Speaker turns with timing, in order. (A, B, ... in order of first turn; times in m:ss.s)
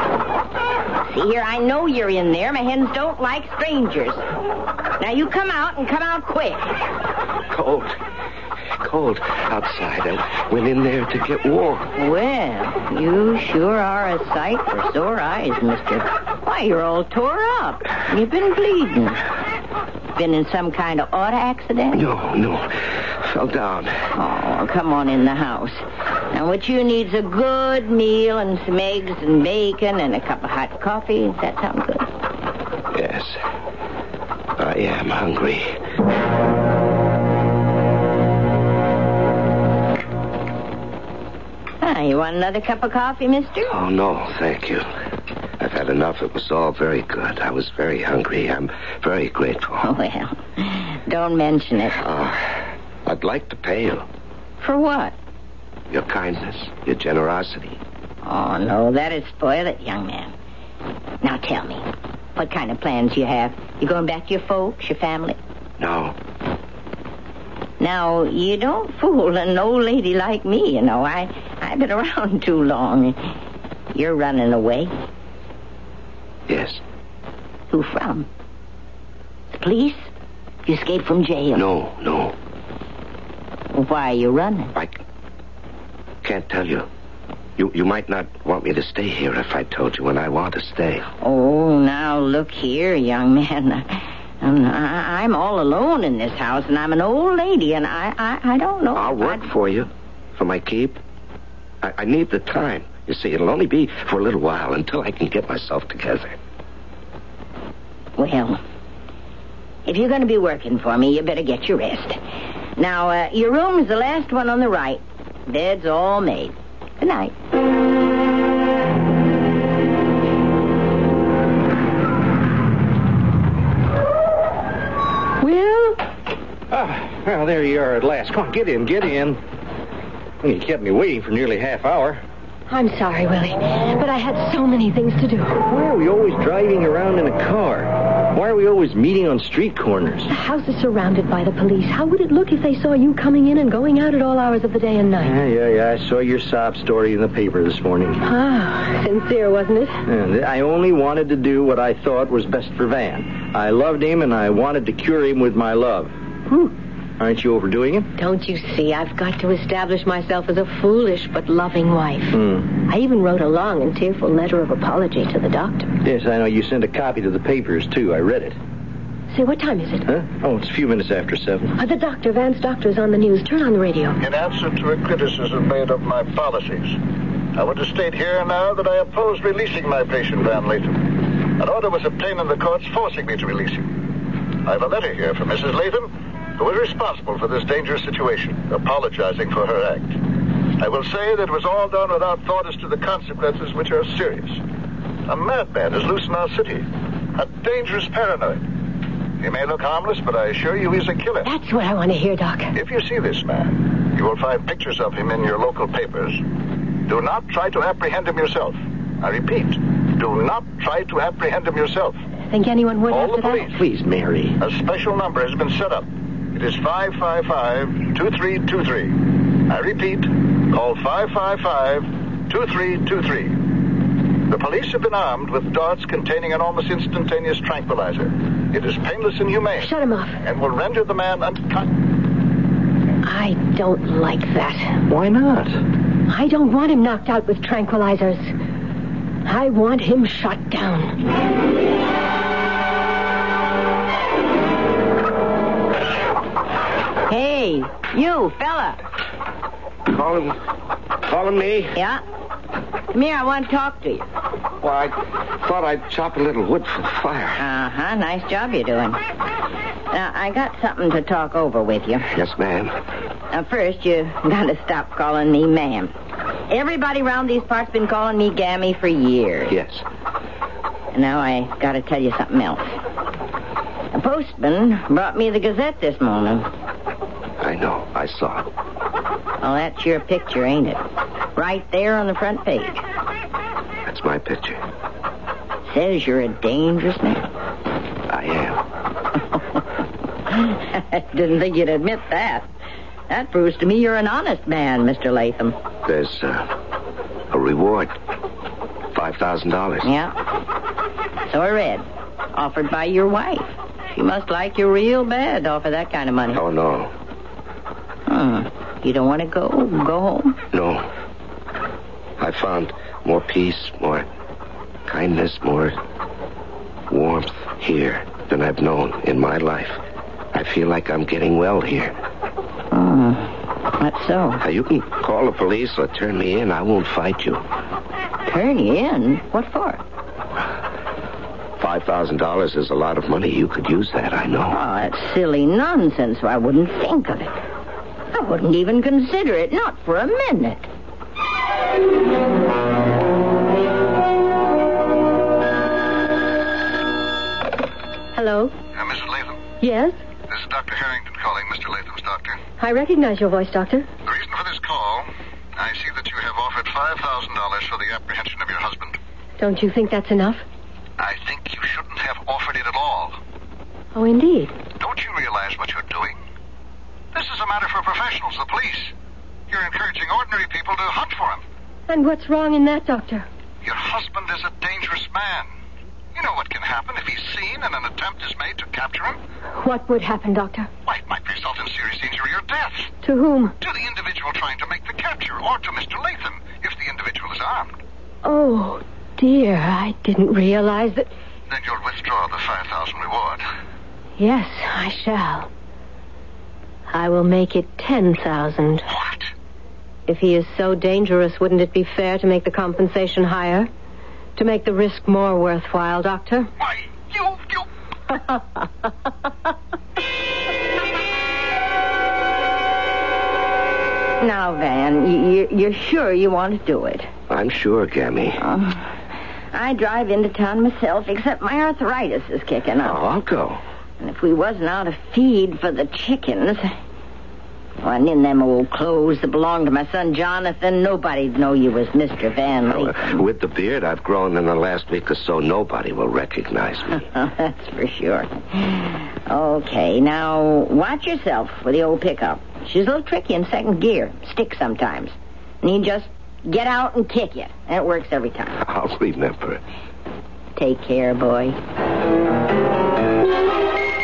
0:01.1-0:04.2 A
0:05.0-0:06.7 A
0:07.5-0:08.0 B
0:08.8-0:11.9 B
0:12.0-0:19.2 A
0:20.2-0:22.0 A
0:21.9-0:24.0 B
0:24.2-0:32.1 A
0:32.9-0:33.4 B
0:34.6-0:35.7 B
0:41.8-0:43.7 A
0:43.6-0:44.8 B
0:45.6-0:50.0 B
0:49.8-0:52.0 A
0:52.0-0:54.0 B
0:54.6-0:55.1 A
0:55.9-0:57.8 B
0:58.2-1:00.3 A
1:01.2-1:05.4 A
1:05.8-1:06.2 B
1:07.8-1:13.2 A
1:13.9-1:14.9 A
1:16.5-1:16.8 B
1:17.7-1:18.3 A
1:19.5-1:20.1 A
1:20.6-1:21.7 A
1:21.5-1:22.3 B
1:23.7-1:24.7 A
1:26.2-1:26.9 B
1:27.6-1:31.0 B
1:31.2-1:39.5 A
1:38.9-1:41.0 B
1:41.8-1:46.4 B
1:48.2-1:48.6 A
1:49.8-1:52.2 A
1:52.8-1:57.3 A
2:05.4-2:06.0 C
2:06.7-2:09.4 D
2:10.4-2:12.2 D
2:12.7-2:15.6 C
2:15.6-2:20.3 D
2:20.3-2:25.4 C
2:25.2-2:28.2 D
2:28.2-2:30.0 C
2:30.0-2:36.1 D
2:37.2-2:38.1 D
2:38.2-2:45.9 C
2:42.3-2:42.7 D
2:46.0-2:48.6 D
2:49.3-2:50.1 C
2:50.1-2:51.7 D
2:51.8-2:54.2 C
2:54.2-2:57.0 E
2:57.6-3:03.9 E
3:04.6-3:10.1 E
3:10.8-3:14.6 E
3:15.3-3:18.6 E
3:19.4-3:21.5 E
3:21.4-3:22.7 C
3:22.7-3:26.4 E
3:27.0-3:32.2 E
3:32.5-3:33.7 C
3:33.1-3:33.6 E
3:33.6-3:34.6 D
3:34.6-3:43.7 E
3:44.5-3:51.9 E
3:49.8-3:50.4 C
3:53.2-3:55.0 C
3:55.1-3:55.8 D
3:56.3-3:58.5 C
3:59.4-4:01.2 C
4:07.3-4:09.0 A
4:10.1-4:10.6 B
4:11.2-4:12.0 B
4:11.9-4:12.2 A
4:13.1-4:14.2 A
4:14.8-4:17.6 B
4:17.6-4:19.2 A
4:20.1-4:22.3 A
4:22.3-4:22.9 B
4:23.5-4:26.1 A
4:26.7-4:29.7 A
4:29.7-4:30.0 B
4:31.1-4:33.0 A
4:34.1-4:36.7 A
4:37.6-4:38.6 B
4:39.6-4:41.0 A
4:41.6-4:43.0 A
4:44.0-4:44.8 B
4:45.9-4:47.4 A
4:48.3-4:48.8 B
4:50.5-4:52.7 A
4:53.3-4:55.8 A
4:56.0-4:56.7 B
4:57.5-4:58.1 B
4:59.1-5:00.1 B
5:00.0-5:00.3 A
5:01.5-5:06.6 A
5:06.5-5:07.1 B
5:08.3-5:10.6 A
5:10.7-5:11.0 B
5:12.4-5:14.2 B
5:15.1-5:16.0 B
5:17.1-5:20.0 B
5:20.5-5:22.2 B
5:22.9-5:24.6 A
5:24.6-5:27.6 B
5:28.4-5:30.0 A
5:31.8-5:34.8 B
5:34.7-5:37.6 A
5:38.3-5:40.9 A
5:48.3-5:48.7 C
5:48.9-5:49.6 E
5:49.8-5:50.2 C
5:50.5-5:52.6 E
5:52.8-5:54.1 C
5:54.2-5:59.2 E
5:59.6-6:00.6 C
6:01.2-6:03.4 E
6:04.1-6:04.7 C
6:05.0-6:06.4 E
6:07.3-6:09.1 E
6:09.7-6:11.6 E
6:12.1-6:13.4 C
6:13.8-6:15.7 E
6:16.3-6:19.4 E
6:19.8-6:20.9 C
6:21.0-6:23.1 E
6:23.2-6:23.7 C
6:23.8-6:28.0 E
6:28.4-6:31.3 C
6:31.7-6:33.6 E
6:34.4-6:35.7 C
6:37.1-6:39.1 C
6:39.1-6:39.5 E
6:40.3-6:43.9 C
6:44.6-6:46.7 C
6:46.8-6:47.8 E
6:54.4-6:57.3 A
6:57.5-6:58.6 B
6:58.6-6:59.0 A
6:59.7-7:03.2 A
7:03.0-7:03.8 B
7:04.2-7:06.9 A
7:08.0-7:13.4 A
7:12.9-7:17.3 B
7:17.3-7:28.8 A
7:28.8-7:29.8 B
7:30.8-7:31.8 A